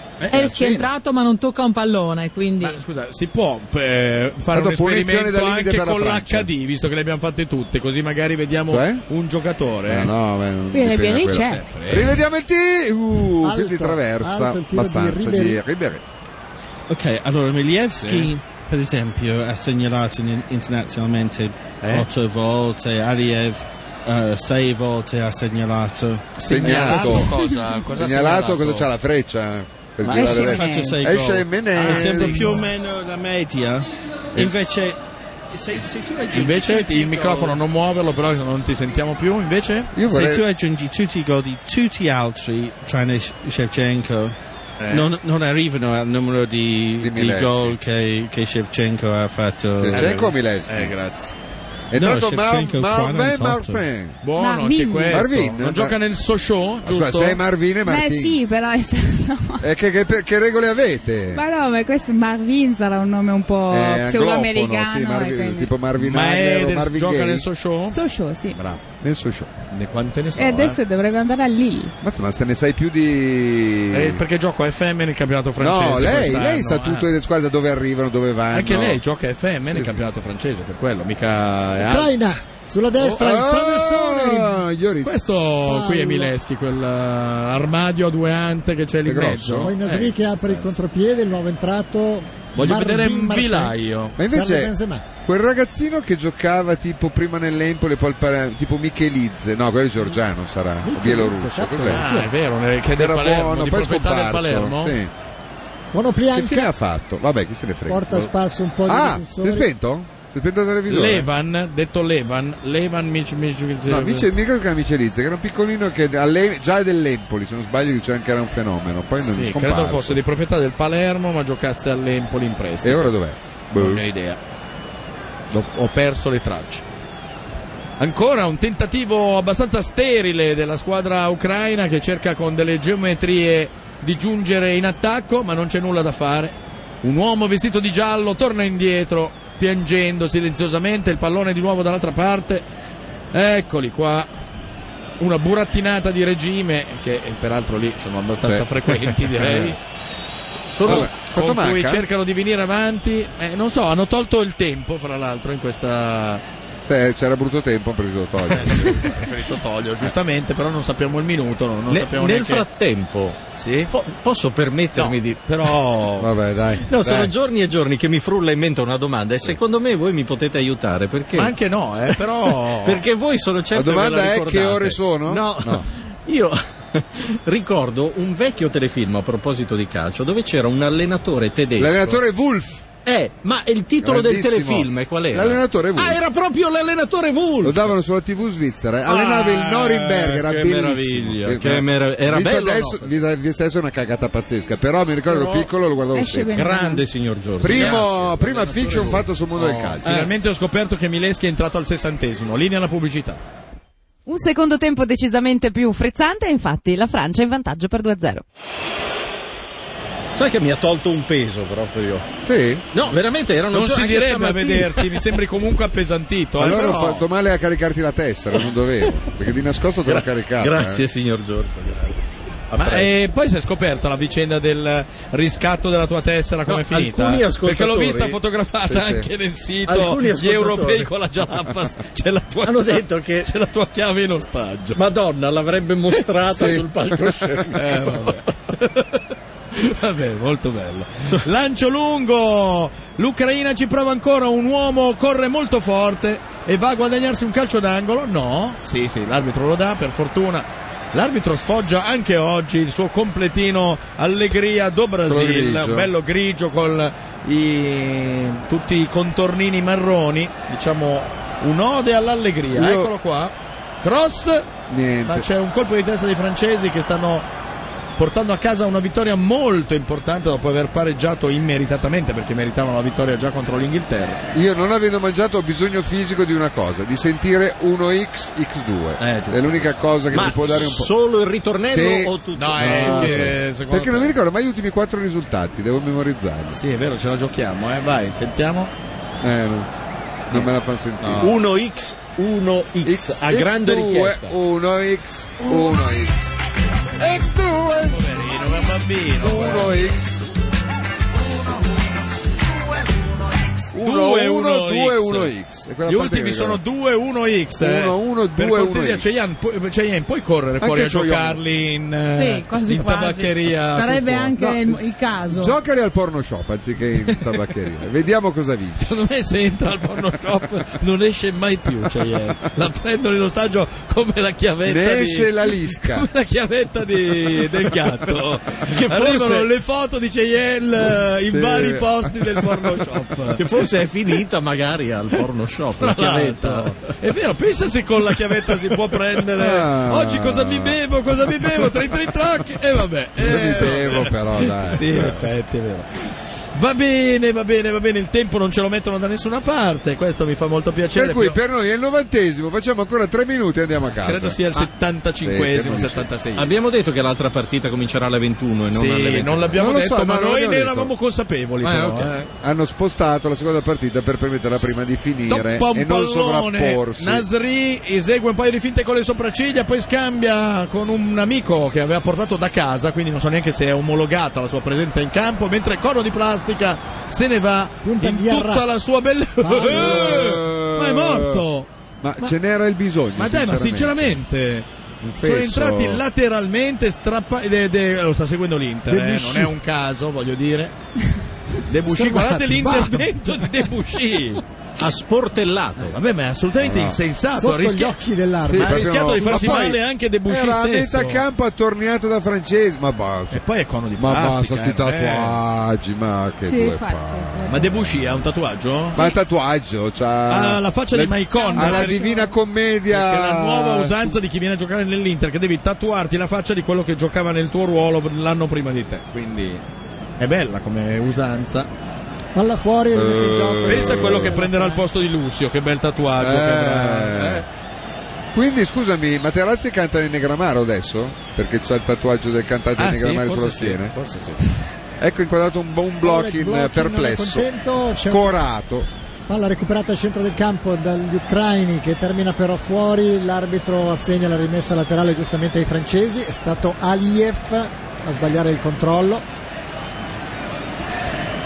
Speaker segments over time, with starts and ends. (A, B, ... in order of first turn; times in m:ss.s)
0:00.2-0:00.9 A
0:00.3-0:02.8 B
0:02.6-0:10.1 C
0:04.5-0:06.5 D
0:08.7-0:09.0 D
0:09.9-0:16.0 D
0:10.7-0:11.7 E
0:11.3-0:12.2 C
0:13.4-0:15.6 F
0:16.9-0:27.2 G
0:18.0-0:18.3 C
0:21.8-0:22.1 C
0:26.4-0:28.9 C
0:26.5-0:27.4 D
0:27.3-0:27.6 E
0:27.9-0:32.7 D
0:30.1-0:31.0 E
0:30.1-0:35.0 G
0:31.8-0:32.7 C
0:34.3-0:34.6 D
0:35.5-0:37.6 G
0:36.3-0:39.9 C
0:39.9-0:40.4 D
0:40.0-0:44.3 G
0:44.8-0:45.1 C
0:44.9-0:50.3 G
0:47.0-0:47.8 D
0:49.8-0:50.9 D
0:49.9-0:51.3 C
0:51.9-0:54.2 D
0:51.9-0:53.9 G
0:54.2-0:57.4 C
0:54.3-0:55.3 E
0:55.1-0:56.0 D
0:56.8-0:58.4 D
0:57.8-0:59.6 E
0:59.6-1:01.4 D
1:01.3-1:05.7 E
1:03.7-1:07.4 D
1:06.0-1:08.0 C
1:07.9-1:08.6 E
1:08.5-1:08.8 C
1:09.0-1:09.5 D
1:09.7-1:10.8 C
1:10.4-1:11.9 E
1:12.0-1:14.2 D
1:13.9-1:17.1 C
1:15.6-1:19.0 D
1:18.5-1:22.1 C
1:19.7-1:20.0 D
1:21.8-1:24.6 F
1:23.0-1:25.3 D
1:25.0-1:30.7 C
1:25.6-1:26.3 F
1:29.0-1:29.7 D
1:29.6-1:35.0 F
1:32.5-1:34.2 C
1:34.2-1:42.1 D
1:40.8-1:42.3 F
1:41.9-1:44.9 C
1:43.0-1:45.1 D
1:45.9-1:46.7 F
1:46.3-1:48.3 D
1:47.9-1:49.7 F
1:48.8-1:51.2 D
1:50.9-1:54.3 C
1:53.9-2:00.2 D
1:59.2-2:03.1 C
2:02.8-2:04.0 D
2:03.7-2:04.4 C
2:05.5-2:06.8 C
2:08.0-2:22.6 C
2:23.3-2:24.3 C
2:25.2-2:29.8 C
2:28.4-2:29.6 D
2:30.7-2:36.4 C
2:30.8-2:31.1 A
2:30.8-2:32.0 D
2:36.8-2:39.3 D
2:38.5-2:42.6 C
2:41.9-2:43.4 A
2:43.5-2:43.9 C
2:43.9-2:45.4 A
2:44.9-2:46.3 C
2:46.2-2:47.3 D
2:46.9-2:51.6 A
2:51.4-2:53.0 C
2:52.1-3:02.2 A
2:53.7-2:55.8 D
3:01.8-3:02.9 D
3:03.0-3:07.9 A
3:04.0-3:06.2 D
3:07.6-3:16.7 D
3:09.0-3:13.2 A
3:15.3-3:15.7 A
3:16.1-3:17.0 E
3:16.5-3:19.3 A
3:17.6-3:20.2 D
3:17.7-3:18.1 C
3:19.6-3:23.4 C
3:24.2-3:28.4 H
3:30.3-3:32.2 A
3:32.4-3:32.9 D
3:32.9-3:35.2 A
3:33.7-3:37.2 C
3:36.6-3:41.0 D
3:40.1-3:43.1 A
3:42.8-3:55.0 C
3:46.7-3:48.4 A
3:48.9-3:49.3 D
3:49.9-3:51.1 A
3:52.6-3:53.5 A
3:54.9-3:58.4 A
3:56.5-3:57.5 D
3:57.7-4:24.7 C
4:15.3-4:16.1 D
4:22.7-4:23.1 D
4:24.9-4:25.4 D
4:25.2-4:27.5 C
4:28.2-4:34.4 C
4:34.5-4:41.1 D
4:39.2-4:40.5 C
4:40.3-4:43.6 A
4:41.9-4:46.8 D
4:42.5-4:44.4 C
4:46.7-4:48.9 C
4:49.4-4:49.9 D
4:50.5-4:51.6 D
4:51.2-4:51.5 C
4:51.4-4:54.5 A
4:53.0-4:56.4 D
4:57.2-4:58.2 D
4:58.0-5:00.1 C
4:59.4-5:00.4 D
5:03.9-5:06.8 D
5:04.0-5:05.5 C
5:06.0-5:14.7 C
5:07.8-5:09.2 D
5:10.8-5:11.6 D
5:12.3-5:15.8 B
5:14.6-5:14.9 D
5:15.5-5:19.1 D
5:19.0-5:33.6 C
5:24.8-5:26.3 D
5:28.9-5:29.7 A
5:31.5-5:32.9 D
5:33.6-5:37.1 A
5:36.0-5:51.6 C
5:39.5-5:42.2 D
5:43.4-5:45.5 D
5:51.1-5:54.6 D
5:54.2-5:56.7 C
5:55.4-5:56.3 D
5:56.6-5:59.9 A
5:58.9-6:02.5 C
5:59.8-6:01.1 D
6:01.8-6:02.5 A
6:02.6-6:07.4 D
6:05.5-6:22.5 C
6:18.0-6:18.9 F
6:19.6-6:20.5 F
6:19.7-6:21.6 D
6:22.2-6:24.4 D
6:23.4-6:24.9 C
6:25.2-6:26.2 D
6:25.4-6:30.9 C
6:29.1-6:29.7 F
6:31.8-6:34.6 C
6:32.0-6:33.8 F
6:35.0-6:36.2 A
6:36.0-6:38.1 C
6:36.8-6:37.2 D
6:37.5-6:39.9 F
6:38.7-6:43.6 D
6:38.7-6:41.4 C
6:43.5-6:45.6 C
6:44.2-6:48.0 D
6:46.6-6:48.0 E
6:47.7-6:49.2 C
6:49.1-6:49.4 E
6:49.1-6:54.4 D
6:50.5-6:52.3 C
6:51.5-6:52.5 E
6:53.1-6:59.8 C
7:00.4-7:01.9 C
7:02.5-7:05.1 F
7:03.1-7:04.6 D
7:03.8-7:07.6 C
7:06.4-7:07.6 D
7:08.5-7:14.1 D
7:13.0-7:14.8 C
7:15.2-7:17.7 D
7:16.2-7:18.6 F
7:18.2-7:19.1 D
7:19.5-7:29.4 F